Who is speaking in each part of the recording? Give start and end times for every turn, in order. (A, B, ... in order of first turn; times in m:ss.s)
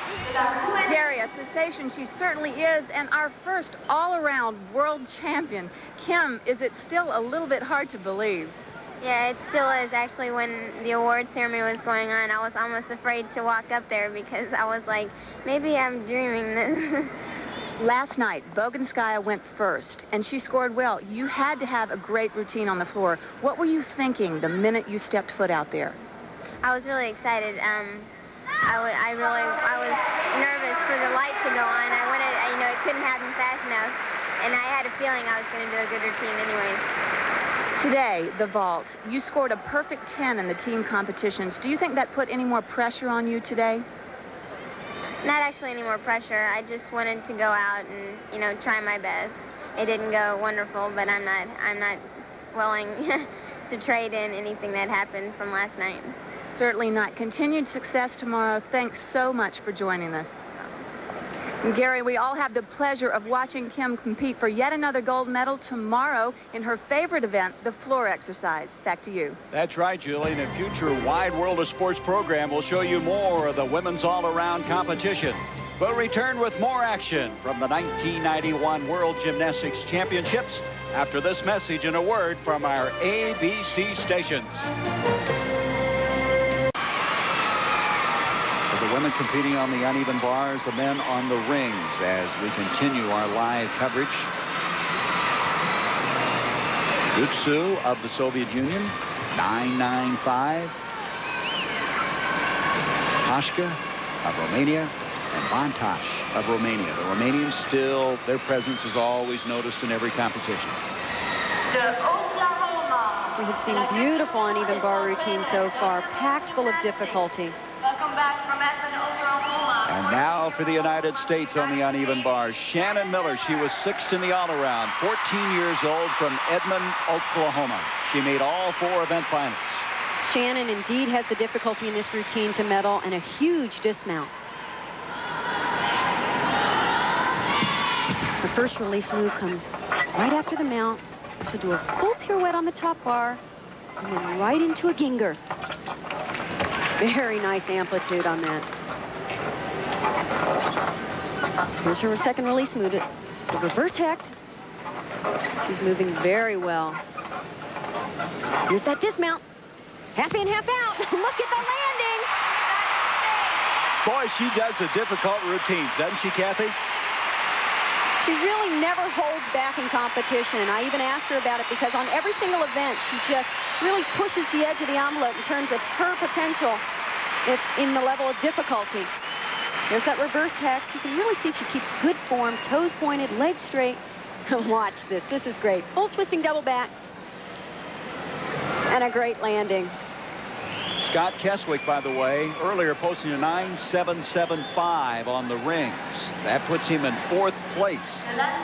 0:00.8-0:08.6 A
0:09.0-0:17.1 B
0:17.8-0:26.0 A
0:26.6-0:28.1 B
0:28.6-0:36.8 B
0:37.8-0:43.8 A
0:45.2-0:56.2 B
0:56.5-1:00.8 A
1:01.6-1:09.4 A
1:09.5-1:24.7 C
1:28.6-1:34.3 C
1:37.1-1:40.8 C
1:43.2-1:50.8 C
1:53.4-1:57.6 D
1:59.8-2:09.9 C
2:10.2-2:14.3 D
2:18.4-2:23.4 D
2:24.0-2:25.4 D
2:27.0-2:28.7 D
2:31.8-2:34.4 D
2:35.6-2:37.0 D
2:38.7-2:39.4 D
2:40.2-2:42.3 D
2:44.0-2:46.8 C
2:48.2-2:56.8 D
2:57.4-2:59.1 D
2:59.9-3:06.9 D
3:08.9-3:10.0 D
3:11.0-3:18.3 C